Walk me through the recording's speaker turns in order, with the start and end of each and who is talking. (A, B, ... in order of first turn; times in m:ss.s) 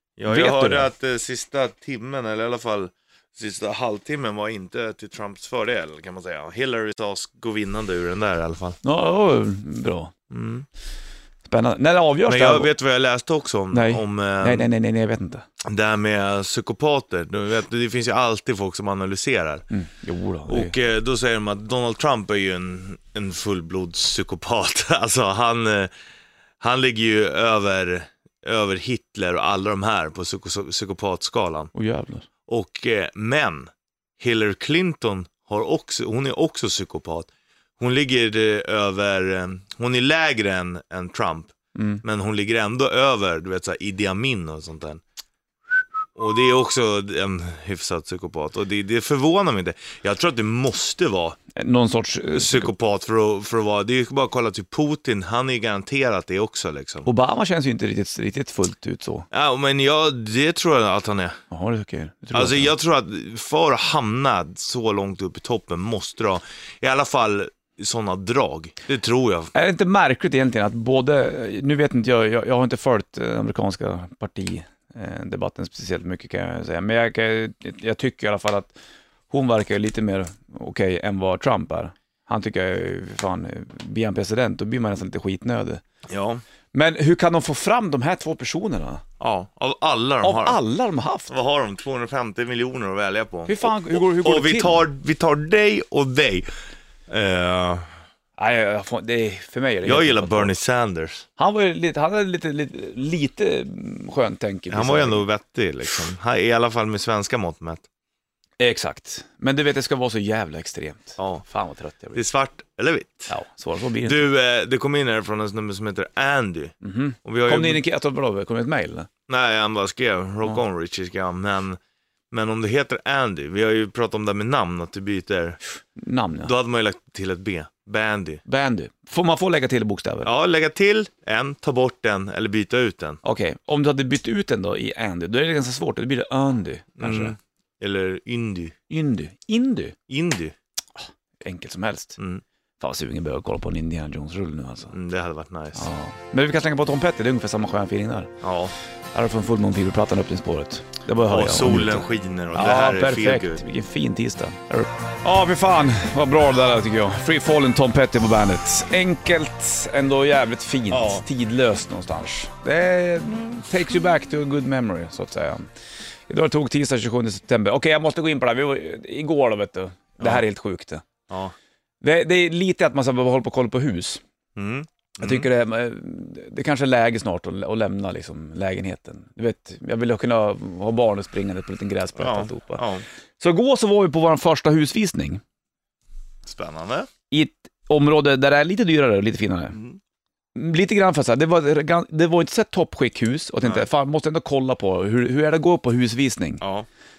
0:00.2-0:08.8 A
0:00.2-0:00.9 B
0:08.8-0:10.1 B
0:10.3-0:10.6 A
0:11.4-0:12.7 B
0:12.2-0:14.7 A
0:13.7-0:15.4 B
0:15.6-0:19.6 A
0:19.7-0:20.7 B
0:20.5-0:25.9 A
0:26.6-0:31.7 A
0:31.7-0:32.2 B
0:32.5-0:45.0 A
0:41.7-0:42.0 B
0:46.2-0:51.4 A
0:51.6-0:52.7 B
0:52.3-0:57.1 A
0:57.0-0:59.3 B
0:59.3-1:01.4 A
1:01.5-1:02.7 B
1:02.3-1:09.5 A
1:09.5-1:18.7 B
1:19.3-1:25.8 B
1:26.1-1:26.4 A
1:26.7-1:29.0 B
1:29.2-1:30.6 A
1:30.2-1:31.3 B
1:31.3-1:36.5 A
1:33.5-1:34.8 B
1:37.1-1:38.0 A
1:38.4-1:40.6 B
1:39.8-1:41.2 A
1:41.4-1:45.2 B
1:44.7-1:47.8 A
1:48.6-1:52.2 B
1:51.2-1:51.4 A
1:52.1-1:53.3 A
1:53.3-1:54.2 B
1:54.0-1:57.8 A
1:56.8-1:59.1 B
1:59.3-2:01.8 A
2:02.3-2:05.6 A
2:06.0-2:06.5 B
2:06.4-2:08.4 A
2:08.4-2:10.3 B
2:10.2-2:13.2 A
2:13.2-2:17.4 B
2:17.0-2:18.7 A
2:18.9-2:20.0 B
2:20.1-2:20.5 A
2:21.0-2:22.2 B
2:22.2-2:22.4 A
2:22.8-2:24.9 B
2:24.9-2:25.8 A
2:25.8-2:28.3 B
2:28.4-2:28.7 A
2:29.1-2:45.7 B
2:31.2-2:33.6 A
2:40.9-2:41.2 A
2:46.3-2:51.0 B
2:50.2-2:50.4 A
2:51.3-2:51.5 A
2:52.0-2:54.2 B
2:54.6-2:55.5 A
2:55.2-3:02.8 B
3:02.2-3:03.0 A
3:03.4-3:05.4 B
3:06.4-3:07.1 A
3:07.3-3:09.8 B
3:10.5-3:16.6 B
3:16.6-3:16.9 A